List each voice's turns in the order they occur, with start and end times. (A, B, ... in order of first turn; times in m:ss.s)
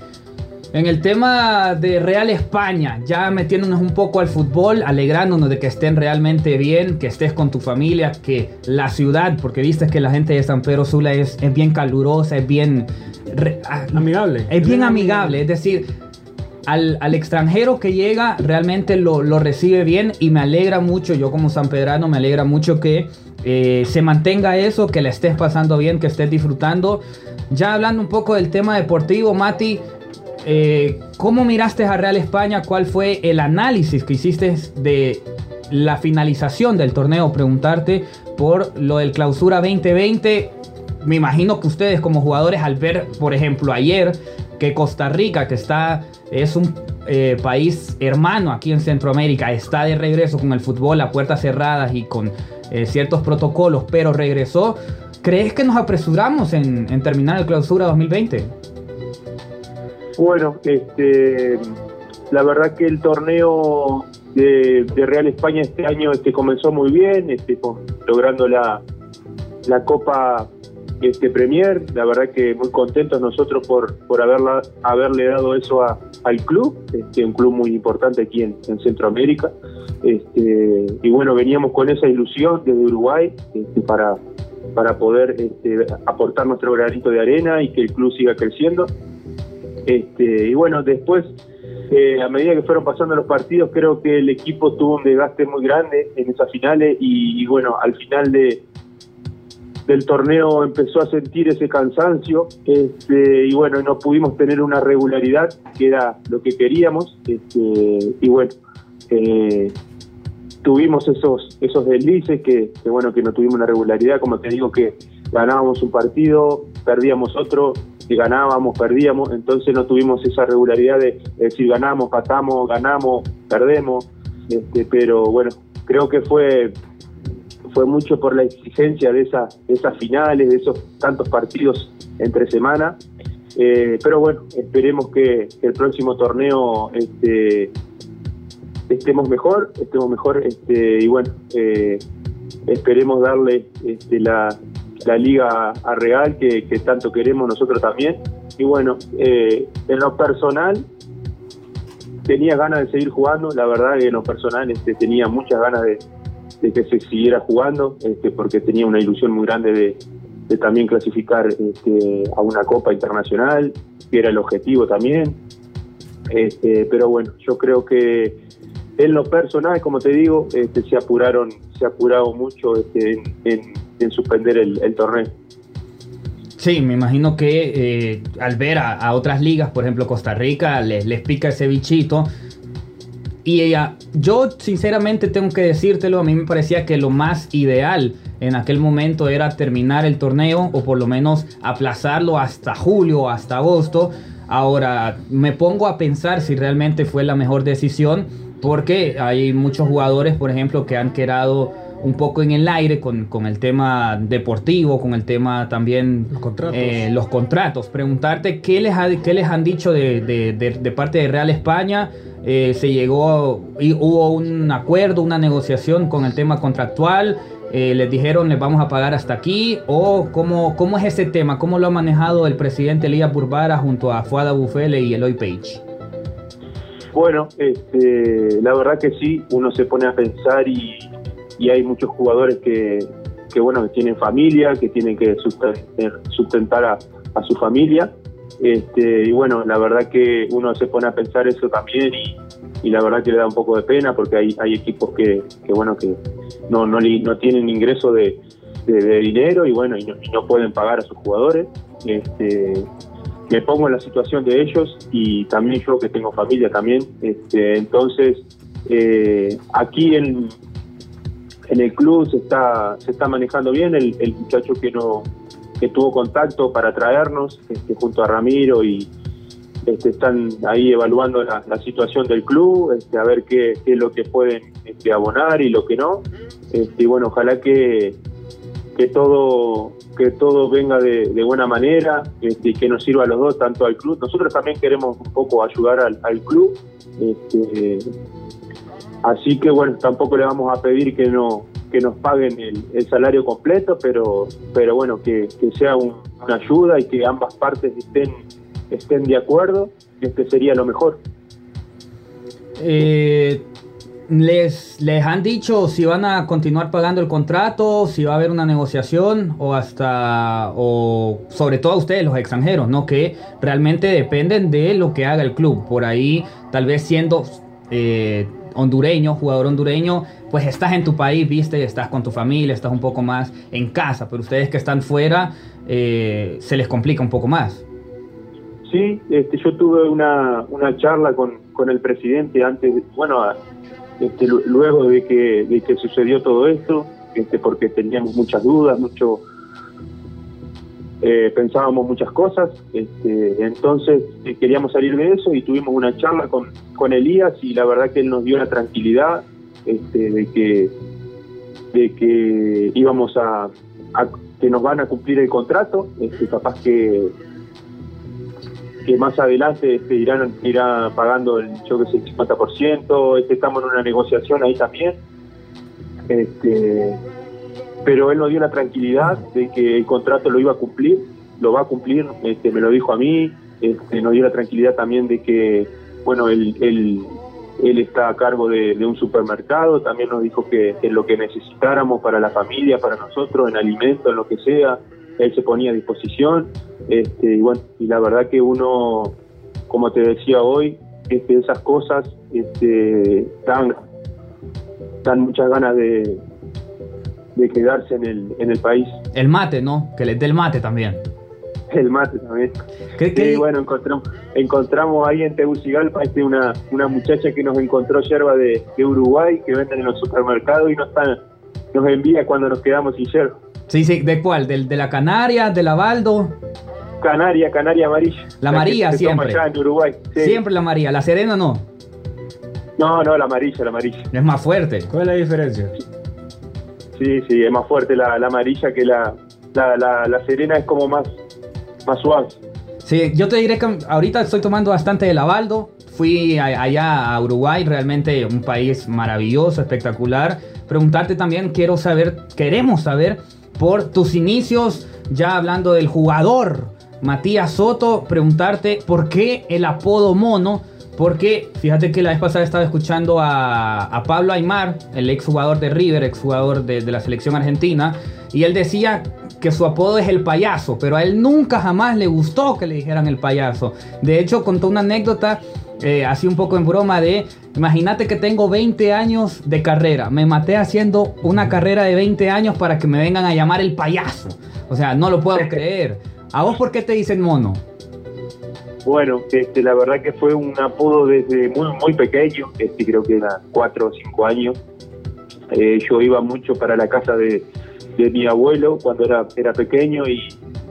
0:00.7-0:15.8 A
0:13.9-0:15.4 B
0:16.6-0:29.8 A
0:30.4-0:58.5 A
1:00.2-1:01.7 C
1:02.3-1:08.8 C
1:09.6-1:10.5 C
1:11.0-1:19.5 C
1:20.0-1:24.2 C
1:24.7-1:28.9 C
1:29.8-1:31.3 C
1:31.9-1:38.6 C
1:39.9-1:48.5 C
1:49.1-1:49.7 C
1:50.6-2:06.7 C
2:07.7-2:13.0 C
2:13.5-2:17.7 C
2:18.9-2:22.0 C
2:22.7-2:30.8 C
2:32.3-2:36.0 C
2:36.6-2:40.0 C
2:40.5-2:45.4 C
2:46.3-2:48.4 C
2:49.0-2:55.3 C
2:56.6-3:02.3 A
3:03.4-3:45.8 A
3:26.3-3:27.0 B
3:47.1-4:12.9 C
4:13.5-4:20.5 C
4:21.7-4:25.3 C
4:25.8-4:29.1 C
4:29.8-4:38.2 C
4:39.0-4:48.1 C
4:49.2-4:58.4 C
4:58.9-5:01.2 C
5:02.8-5:03.6 A
5:04.3-5:27.8 A
5:28.9-5:33.6 C
5:34.2-5:39.4 C
5:41.2-5:50.9 C
5:51.9-5:57.3 C
5:59.0-6:05.2 C
6:06.3-6:07.2 C
6:08.0-6:29.3 C
6:29.9-6:34.0 C
6:35.2-6:36.4 C
6:37.6-6:39.2 C
6:39.3-6:41.2 A
6:41.9-6:42.8 C
6:43.2-6:43.6 A
6:43.3-6:51.4 C
6:51.9-6:53.5 C
6:53.9-6:56.5 A
6:57.2-7:00.6 C
6:58.6-6:59.6 A
7:00.4-7:01.8 A
7:03.0-7:04.3 C
7:04.3-7:05.1 A
7:05.1-7:06.0 B
7:07.2-7:11.3 C
7:12.0-7:12.6 C
7:13.0-7:57.8 A
7:59.0-8:04.8 C
8:05.7-8:07.6 C
8:08.2-8:10.6 C